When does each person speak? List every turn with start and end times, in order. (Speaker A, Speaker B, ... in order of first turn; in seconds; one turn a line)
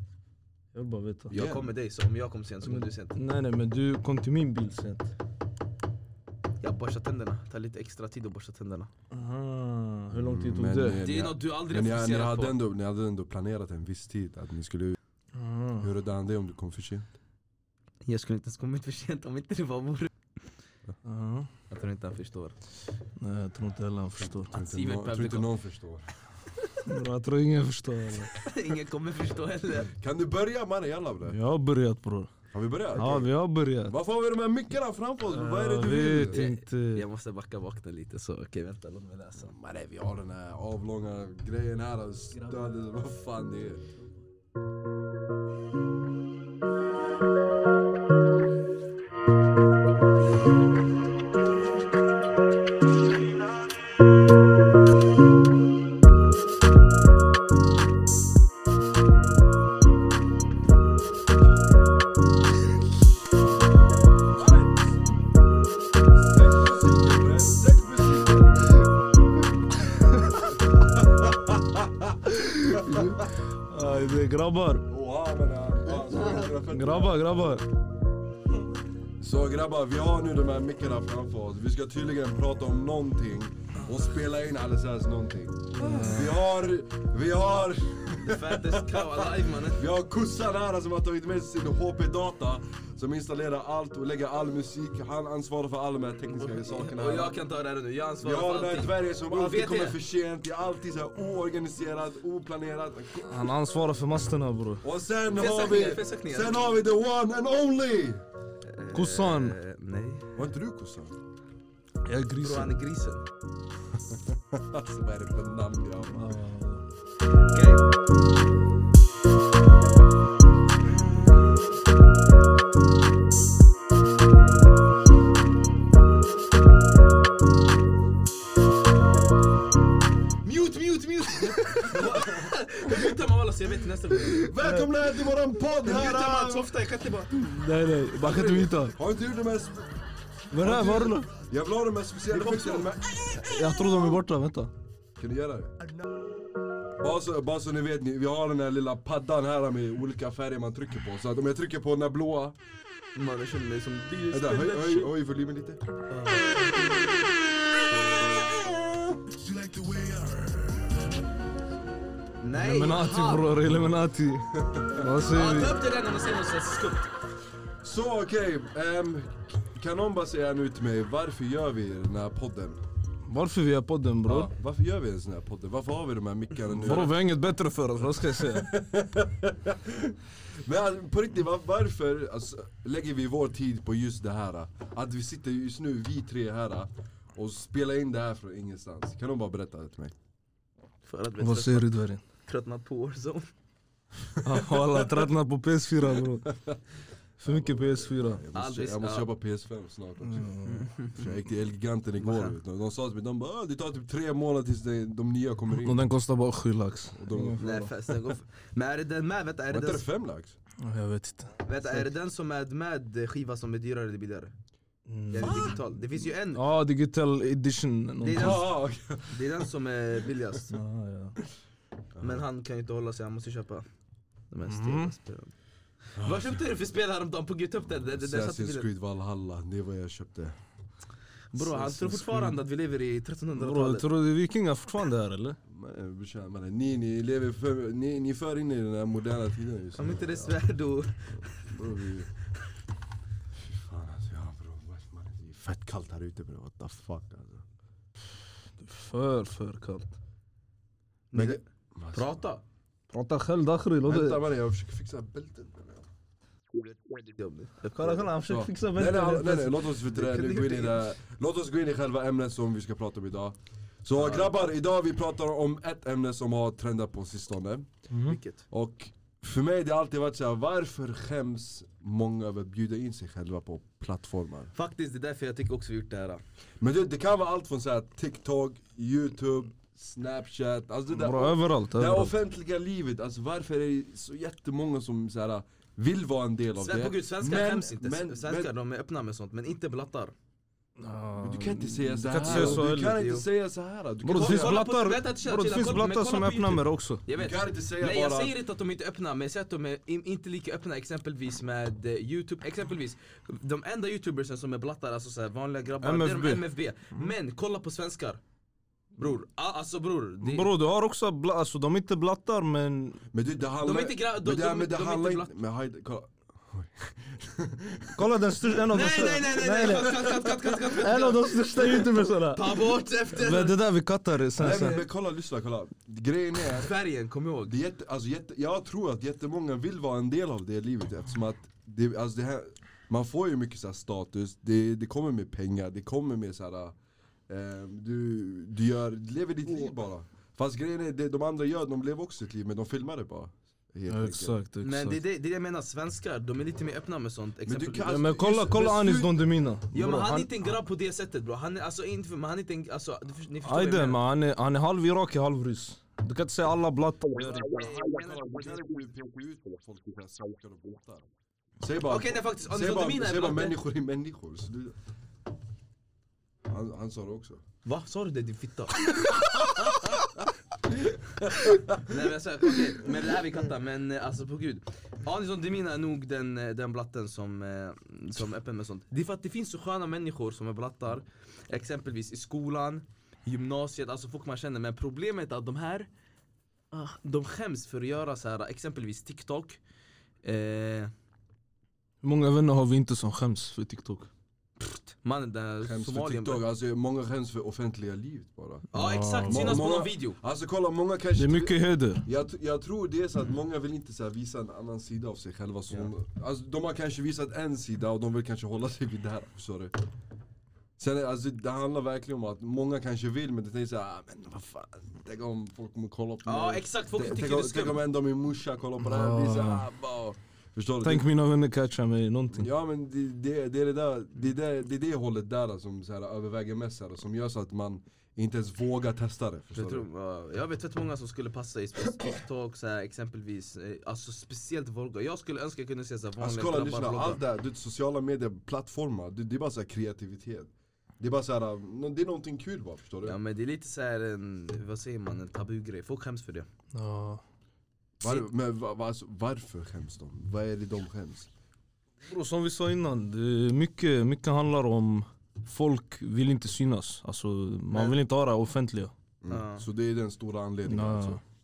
Speaker A: 0.7-1.3
Speaker B: 1.3-1.6
Speaker C: 1.3-3.2
Speaker A: 2.6-5.1
Speaker C: 6.6-8.9
Speaker A: 9.1-11.0
Speaker B: 10.1-15.0
Speaker C: 11.0-12.5
Speaker A: 15.3-15.9
Speaker B: 15.8-17.1
Speaker C: 18.1-20.1
Speaker A: 21.0-21.5
Speaker C: 21.7-22.6
Speaker A: 23.2-24.5
Speaker B: 24.5-26.2
Speaker C: 24.5-25.5
Speaker A: 26.8-28.3
Speaker C: 28.4-29.9
Speaker B: 29.8-31.4
Speaker A: 31.3-32.3
Speaker B: 32.5-33.3
Speaker A: 32.9-33.9
Speaker B: 33.8-36.4
Speaker A: 35.3-37.0
Speaker C: 36.3-39.5
Speaker B: 39.4-43.8
Speaker B: 64.3-64.8
Speaker B: 66.1-68.9
Speaker B: 70.1-73.3
Speaker A: 72.3-74.8
Speaker B: 74.9-77.5
Speaker A: 76.4-77.6
Speaker B: 79.2-97.3
Speaker A: 85.8-86.4
Speaker C: 88.1-89.8
Speaker C: 96.3-100.0
Speaker B: 98.2-103.5
Speaker A: 103.3-104.8
Speaker B: 104.8-108.2
Speaker C: 105.3-106.6
Speaker C: 108.7-110.3
Speaker A: 108.9-109.6
Speaker B: 110.3-111.2
Speaker A: 112.0-112.7
Speaker C: 112.4-113.2
Speaker B: 114.0-116.3
Speaker A: 116.1-116.8
Speaker C: 117.5-117.8
Speaker C: 130.4-134.8
Speaker B: 131.2-132.5
Speaker A: 131.6-131.9
Speaker B: 134.1-136.7
Speaker C: 135.7-137.4
Speaker A: 137.3-138.9
Speaker B: 138.2-139.8
Speaker A: 140.5-141.3
Speaker B: 140.6-144.0
Speaker A: 143.3-144.7
Speaker B: 145.2-145.8
Speaker B: 147.0-152.6
Speaker C: 153.1-155.1
Speaker B: 154.3-155.8
Speaker C: 156.1-157.0
Speaker B: 157.9-160.9
Speaker C: 162.4-163.5
Speaker A: 162.5-165.8
Speaker B: 164.5-165.1
Speaker C: 165.3-167.1
Speaker B: 167.8-172.8
Speaker A: 173.2-174.5
Speaker B: 174.2-177.1
Speaker A: 176.7-178.7
Speaker B: 178.3-190.1
Speaker C: 191.0-191.9
Speaker A: 191.4-192.2
Speaker C: 192.4-193.5
Speaker A: 194.4-196.5
Speaker B: 196.4-196.8
Speaker A: 197.4-198.4
Speaker B: 197.4-206.1
Speaker C: 198.5-199.2
Speaker A: 200.2-200.9
Speaker C: 200.6-201.3
Speaker C: 202.2-202.6
Speaker A: 205.7-208.2
Speaker B: 207.1-207.6
Speaker C: 207.6-210.0
Speaker B: 209.7-210.6
Speaker A: 210.8-211.5
Speaker C: 211.6-214.5
Speaker A: 215.1-215.8
Speaker C: 215.3-216.6
Speaker B: 215.4-215.7
Speaker A: 216.5-218.6
Speaker C: 218.2-218.7
Speaker B: 218.3-219.6
Speaker C: 219.3-220.8
Speaker A: 220.7-221.4
Speaker B: 222.2-222.4
Speaker C: 222.2-223.8
Speaker C: 224.5-225.5
Speaker A: 224.7-225.1
Speaker B: 226.2-226.6
Speaker C: 226.2-228.9
Speaker B: 228.1-230.6
Speaker C: 231.5-234.1
Speaker B: 231.5-232.4
Speaker A: 233.6-235.6
Speaker B: 235.7-240.6
Speaker C: 240.0-241.5
Speaker B: 241.3-242.3
Speaker B: 243.6-247.6
Speaker A: 248.8-250.1
Speaker C: 251.3-251.6
Speaker B: 251.3-252.4
Speaker C: 252.1-252.6
Speaker A: 253.1-254.4
Speaker B: 254.0-256.1
Speaker C: 256.7-258.3
Speaker A: 257.9-259.9
Speaker B: 258.4-267.9
Speaker C: 260.1-261.0
Speaker C: 264.2-264.5
Speaker A: 268.1-268.4
Speaker C: 268.2-268.6
Speaker B: 268.7-274.7
Speaker C: 274.7-276.4
Speaker B: 276.8-288.7
Speaker A: 281.1-282.3
Speaker C: 286.8-290.3
Speaker A: 291.0-293.2
Speaker B: 291.4-294.8
Speaker C: 292.4-293.4
Speaker A: 294.2-297.2
Speaker C: 294.3-308.4
Speaker B: 297.3-298.5
Speaker A: 306.0-306.6
Speaker C: 309.2-310.7
Speaker A: 310.4-313.2
Speaker B: 313.3-318.2
Speaker C: 313.8-315.5
Speaker A: 318.1-325.0
Speaker C: 318.9-323.8
Speaker B: 324.6-326.9
Speaker C: 326.6-327.7
Speaker B: 327.6-336.9
Speaker B: 337.5-344.5
Speaker C: 339.7-339.9
Speaker A: 344.1-345.2
Speaker C: 344.8-348.1
Speaker B: 347.6-349.6
Speaker A: 348.1-350.7
Speaker C: 349.9-354.2
Speaker A: 353.6-357.7
Speaker C: 357.4-359.1
Speaker B: 357.4-361.3
Speaker B: 361.8-364.9
Speaker C: 362.0-363.8
Speaker B: 366.7-367.6
Speaker C: 367.8-369.4
Speaker B: 369.3-370.3
Speaker B: 371.2-372.1
Speaker C: 371.5-386.1
Speaker C: 386.9-389.8
Speaker C: 390.4-391.1
Speaker A: 392.2-394.3
Speaker C: 394.8-396.6
Speaker B: 395.8-398.9
Speaker C: 398.9-400.4
Speaker A: 398.9-399.8
Speaker B: 399.4-409.9
Speaker A: 401.4-402.2
Speaker B: 411.0-421.3
Speaker C: 416.4-418.0
Speaker A: 419.0-419.9
Speaker A: 421.0-422.7
Speaker B: 422.5-430.1
Speaker C: 429.8-437.4
Speaker B: 436.4-443.4
Speaker C: 443.2-446.7
Speaker A: 446.9-447.4
Speaker B: 448.2-451.5
Speaker A: 452.2-459.1
Speaker B: 459.4-461.4
Speaker C: 459.5-459.8
Speaker A: 460.9-461.4